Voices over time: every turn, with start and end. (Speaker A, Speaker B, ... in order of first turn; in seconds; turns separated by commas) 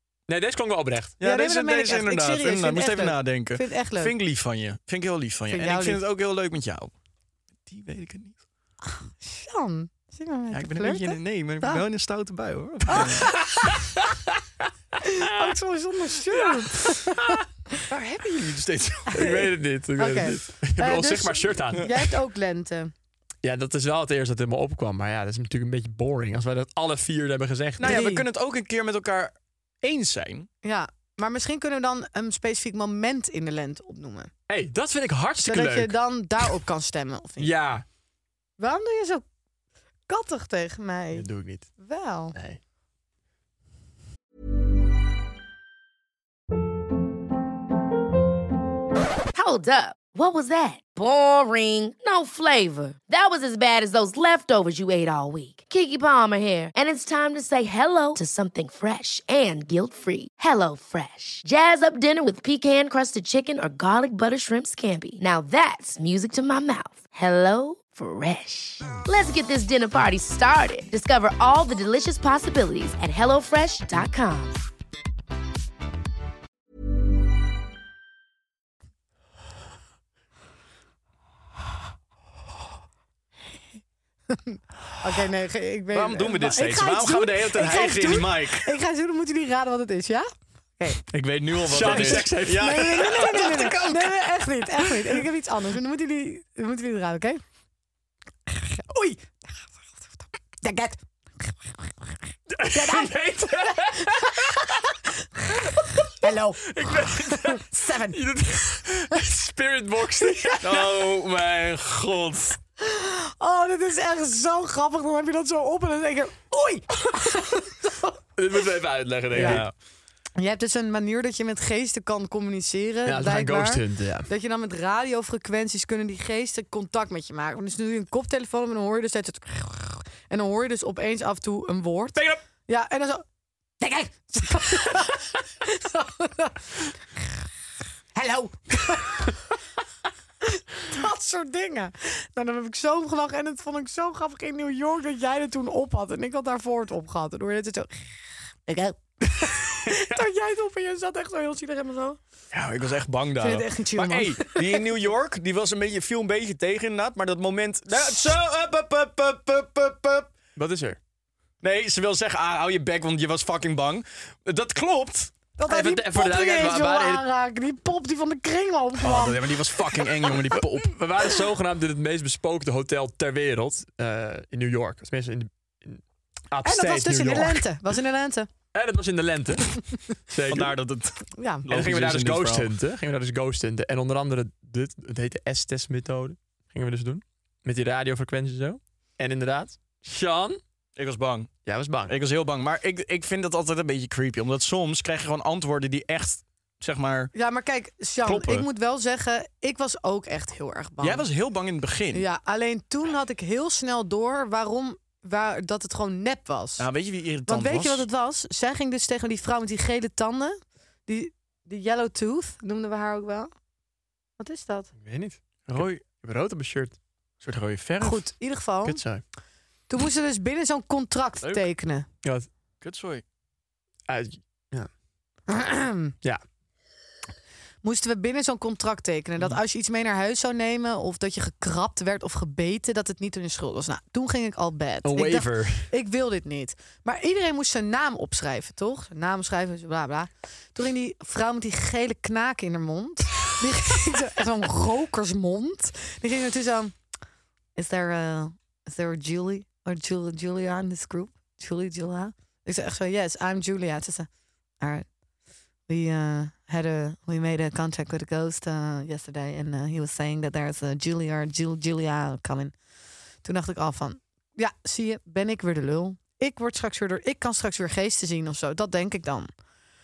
Speaker A: 0.3-1.1, Speaker B: 1.2-6.9, Speaker C: 1.2-4.1, Speaker C: 5.5-6.0, Speaker B: 7.7-8.4, Speaker C: 8.8-11.8, Speaker B: 10.5-13.4, Speaker C: 12.9-13.8, Speaker A: 13.5-14.0, Speaker C: 15.0-17.4, Speaker A: 15.2-15.5, Speaker A: 16.6-17.4, Speaker B: 17.9-19.2, Speaker A: 19.1-21.9, Speaker C: 19.1-22.9, Speaker A: 23.4-28.1, Speaker B: 27.8-30.5, Speaker C: 27.8-28.2, Speaker C: 30.6-34.3, Speaker A: 34.5-36.4, Speaker C: 35.4-37.5, Speaker A: 37.4-37.9, Speaker C: 38.6-39.2, Speaker C: 40.1-42.3, Speaker A: 41.1-41.7, Speaker A: 42.3-42.6, Speaker D: 49.3-74.6, Speaker C: 84.3-91.0, Speaker B: 85.9-88.7, Speaker B: 91.1-93.9, Speaker A: 91.7-94.1, Speaker C: 91.8-97.4, Speaker A: 94.8-95.2, Speaker C: 98.5-99.4, Speaker C: 100.6-101.9, Speaker A: 102.5-104.8, Speaker C: 102.7-104.8, Speaker C: 105.5-108.2, Speaker A: 105.8-110.9, Speaker C: 110.3-110.6, Speaker B: 110.6-112.6, Speaker C: 112.8-118.1, Speaker A: 118.3-119.6, Speaker B: 119.3-119.7, Speaker C: 119.3-119.7, Speaker C: 120.3-133.2, Speaker A: 123.0-124.3, Speaker C: 133.8-136.6, Speaker C: 138.1-139.4, Speaker C: 140.4-148.1, Speaker C: 148.7-152.2, Speaker A: 149.8-150.2, Speaker B: 152.5-160.3, Speaker C: 153.4-154.8, Speaker A: 160.6-161.0, Speaker B: 161.6-165.3, Speaker C: 165.6-169.4, Speaker A: 165.7-167.2, Speaker B: 169.0-170.9, Speaker A: 170.5-177.6, Speaker C: 176.6-178.5, Speaker A: 178.7-180.7, Speaker B: 180.5-182.7, Speaker C: 181.4-181.6, Speaker A: 181.7-190.6, Speaker B: 190.9-191.5, Speaker A: 191.6-192.1, Speaker B: 192.1-197.3, Speaker C: 197.3-201.2, Speaker B: 198.2-198.7, Speaker B: 201.0-202.2, Speaker C: 202.1-206.9, Speaker B: 206.8-208.0, Speaker C: 207.4-213.5, Speaker C: 214.4-214.9, Speaker A: 215.0-216.9, Speaker B: 215.7-216.0, Speaker B: 217.4-218.3, Speaker C: 218.0-219.0, Speaker A: 218.8-219.2, Speaker C: 219.9-222.1, Speaker A: 222.2-222.5, Speaker B: 222.8-223.2, Speaker A: 224.1-224.9, Speaker C: 225.5-226.1, Speaker C: 227.8-246.9, Speaker A: 235.0-235.9, Speaker C: 247.8-254.3, Speaker C: 254.8-255.1, Speaker C: 255.9-262.7, Speaker C: 263.4-269.5